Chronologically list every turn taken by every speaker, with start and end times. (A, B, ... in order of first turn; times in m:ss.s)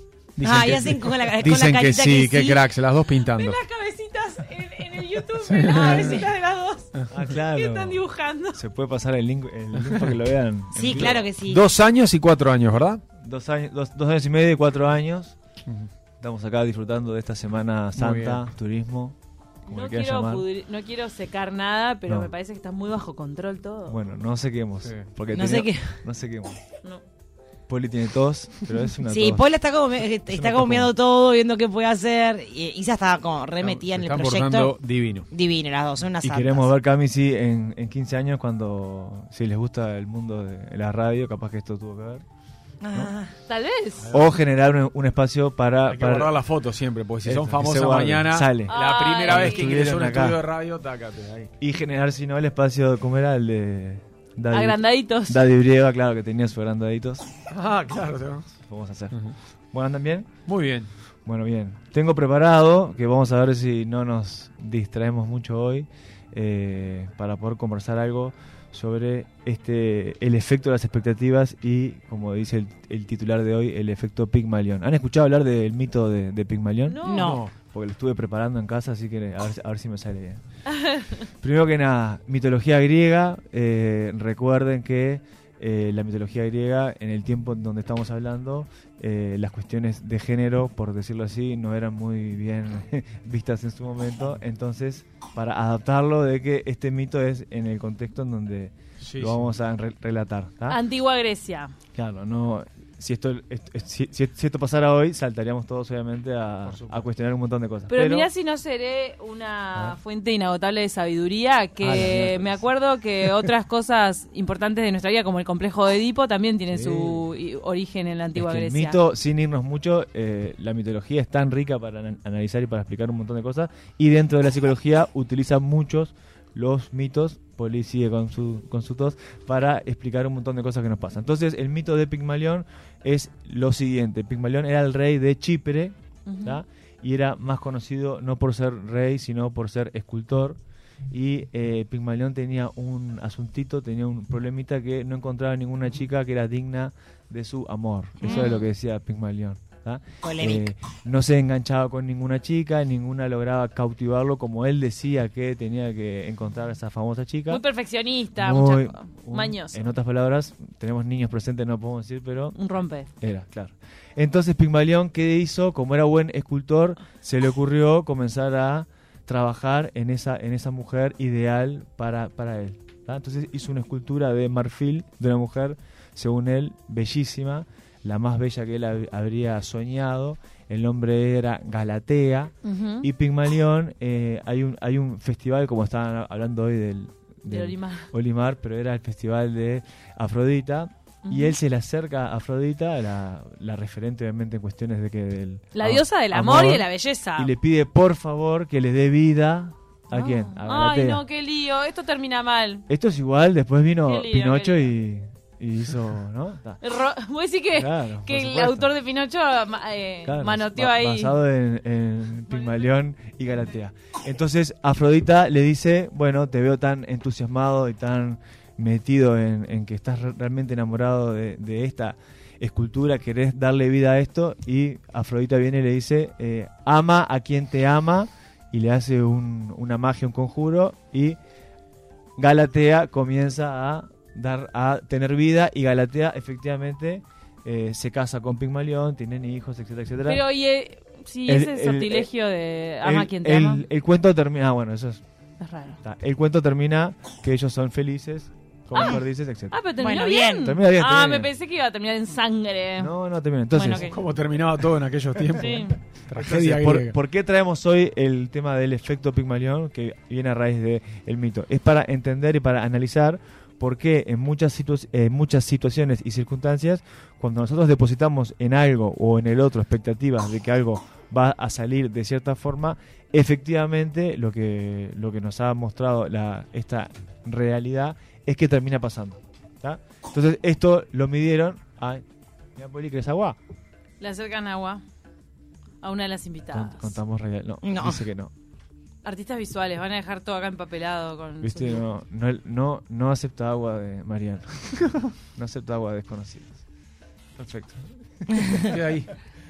0:00.4-0:03.6 A
0:00.4-0:02.6 B
0:03.3-0:06.9 C
0:05.4-0:06.3 A
0:07.1-0:08.0 D
0:07.4-0:08.6 C
0:08.5-0:11.3 D
0:09.8-0:10.1 A
0:10.8-0:11.7 B
0:10.9-0:13.0 A
0:13.2-0:15.4 D
0:16.2-0:19.2 D
0:18.0-0:18.4 A
0:19.7-0:24.0 C
0:19.7-0:20.5 D
0:23.9-0:26.6 D
0:25.3-0:26.0 B
0:27.7-0:29.4 D
0:29.1-0:34.8 B
0:30.3-0:30.9 D
0:33.6-0:35.3 A
0:35.3-0:36.7 B
0:36.2-0:42.2 D
0:42.8-0:43.3 B
0:43.5-0:44.1 C
0:44.0-0:44.3 A
0:44.1-0:46.3 D
0:45.9-0:51.5 A
0:47.2-0:48.7 D
0:48.7-0:49.7 C
0:49.3-0:50.4 D
0:51.6-0:57.3 D
0:54.5-0:55.4 C
0:57.5-0:58.5 A
0:58.7-0:59.2 D
0:59.7-1:00.3 D
1:00.5-1:00.9 A
1:01.3-1:17.1 D
1:16.9-1:17.4 C
1:17.0-1:17.4 B
1:17.1-1:17.5 A
1:17.7-1:20.4 D
1:20.8-1:21.2 C
1:21.4-1:40.8 D
1:39.0-1:39.5 A
1:40.7-1:41.7 C
1:42.0-1:48.3 D
1:46.6-1:47.1 A
1:47.9-1:59.0 C
1:51.8-1:52.5 D
1:56.7-1:57.3 D
1:58.4-2:20.6 D
2:16.3-2:16.6 C
2:21.1-2:37.6 D
2:28.2-2:28.7 C
2:30.2-2:30.7 B
2:37.5-2:39.8 C
2:38.4-2:42.6 D
2:42.5-2:43.1 C
2:43.2-3:21.2 D
3:02.6-3:03.1 C
3:07.5-3:08.1 C
3:11.2-3:11.6 C
3:15.7-3:17.5 C
3:20.1-3:22.8 C
3:22.9-3:26.8 D
3:24.1-3:24.9 C
3:26.8-3:31.4 C
3:27.7-3:28.9 D
3:30.3-3:51.4 D
3:52.4-4:00.4 D
4:00.2-4:03.8 C
4:01.5-4:02.3 D
4:03.0-4:05.2 D
4:05.6-4:06.0 C
4:06.0-4:09.8 D
4:08.9-4:13.1 C
4:10.0-4:10.7 B
4:10.6-4:11.5 D
4:13.0-4:14.1 D
4:13.7-4:14.2 C
4:14.0-4:17.2 A
4:15.6-4:16.0 C
4:16.4-4:42.2 D
4:42.8-4:43.6 D
4:44.2-4:45.0 C
4:46.0-4:47.2 C
4:46.7-4:48.5 D
4:47.8-4:48.2 B
4:49.2-4:52.1 C
4:51.6-4:56.8 D
4:57.6-4:59.0 D
4:58.9-4:59.3 A